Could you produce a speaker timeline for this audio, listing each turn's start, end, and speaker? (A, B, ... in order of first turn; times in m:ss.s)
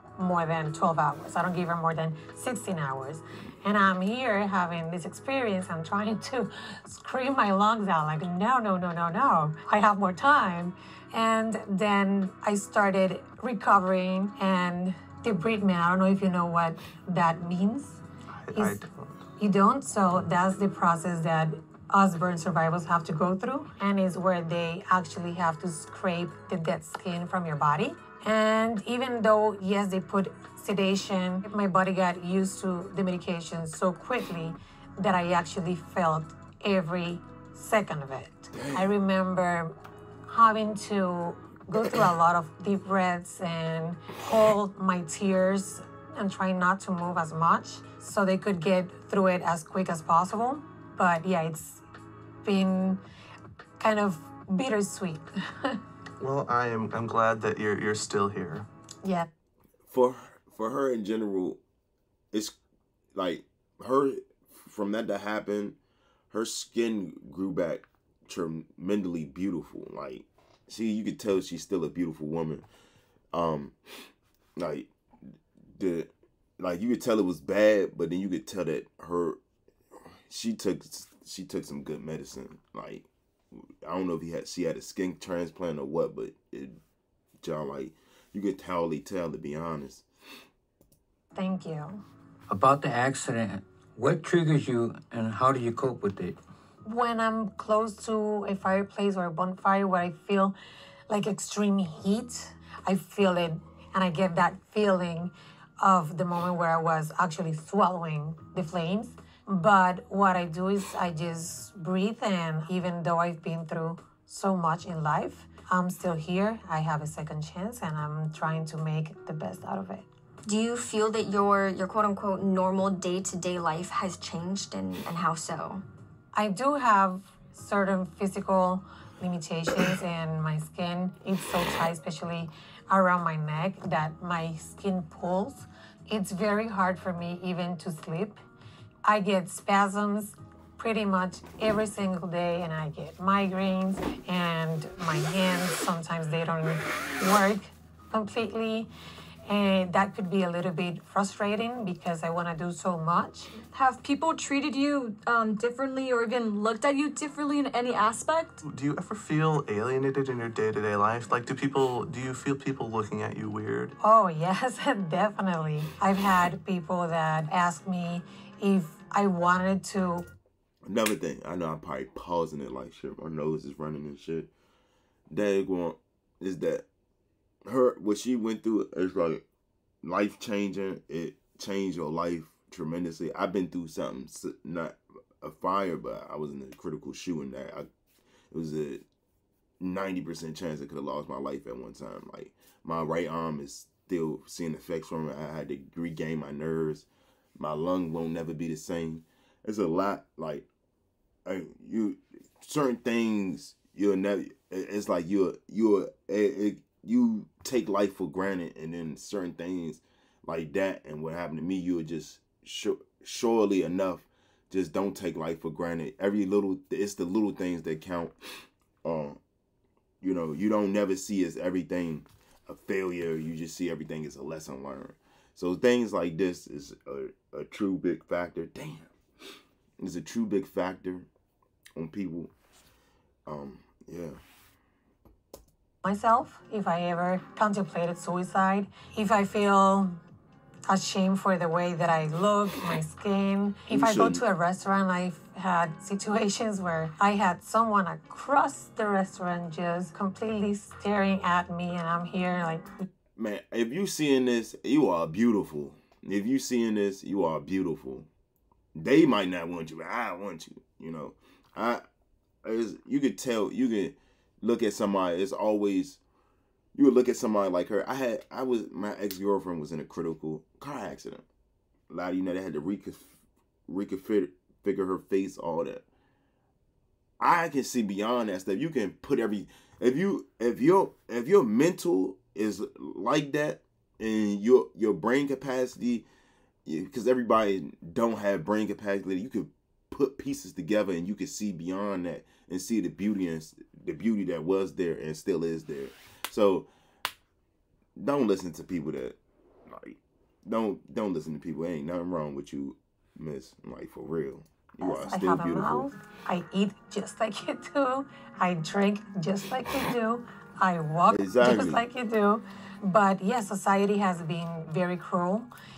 0:00.2-0:18.0 A
0:18.3-0:19.2 B
0:18.5-0:18.8 A
0:19.4-0:39.7 A
0:38.5-0:38.9 C
0:40.3-0:51.8 A
0:52.4-0:53.0 A
0:53.8-0:55.8 A
0:56.2-0:58.7 B
0:59.9-1:01.6 C
1:03.1-1:05.8 C
1:06.3-1:12.6 C
1:13.3-1:13.8 C
1:14.6-1:14.9 C
1:15.7-1:19.4 C
1:20.3-1:23.1 C
1:23.8-1:26.8 C
1:27.4-1:30.0 C
1:31.3-1:32.0 A
1:32.5-1:36.4 D
1:36.8-1:40.6 A
1:41.1-2:00.0 A
2:00.4-2:05.8 E
2:06.3-2:18.4 A
2:19.0-2:28.9 A
2:29.5-2:33.5 A
2:33.6-2:38.6 F
2:38.6-2:43.9 B
2:44.0-2:50.2 A
2:50.8-2:54.5 C
2:55.3-2:56.8 C
2:57.6-2:59.4 C
3:00.0-3:07.9 C
3:08.5-3:09.0 C
3:09.8-3:20.7 C
3:21.4-3:38.3 C
3:39.0-3:39.4 C
3:40.2-3:49.1 C
3:50.0-3:51.3 C
3:52.0-3:52.5 C
3:53.5-3:54.4 C
3:56.0-4:00.2 A
4:00.9-4:13.0 A
4:03.9-4:04.4 C
4:13.4-4:18.3 C
4:19.0-4:22.0 C
4:22.6-4:26.2 C
4:26.9-4:31.4 C
4:32.1-4:33.3 C
4:33.9-4:36.0 C
4:37.4-4:46.3 C
4:46.8-4:56.9 C
4:58.2-4:59.4 C
4:59.9-5:06.1 C
5:05.0-5:15.7 A
5:11.3-5:12.0 C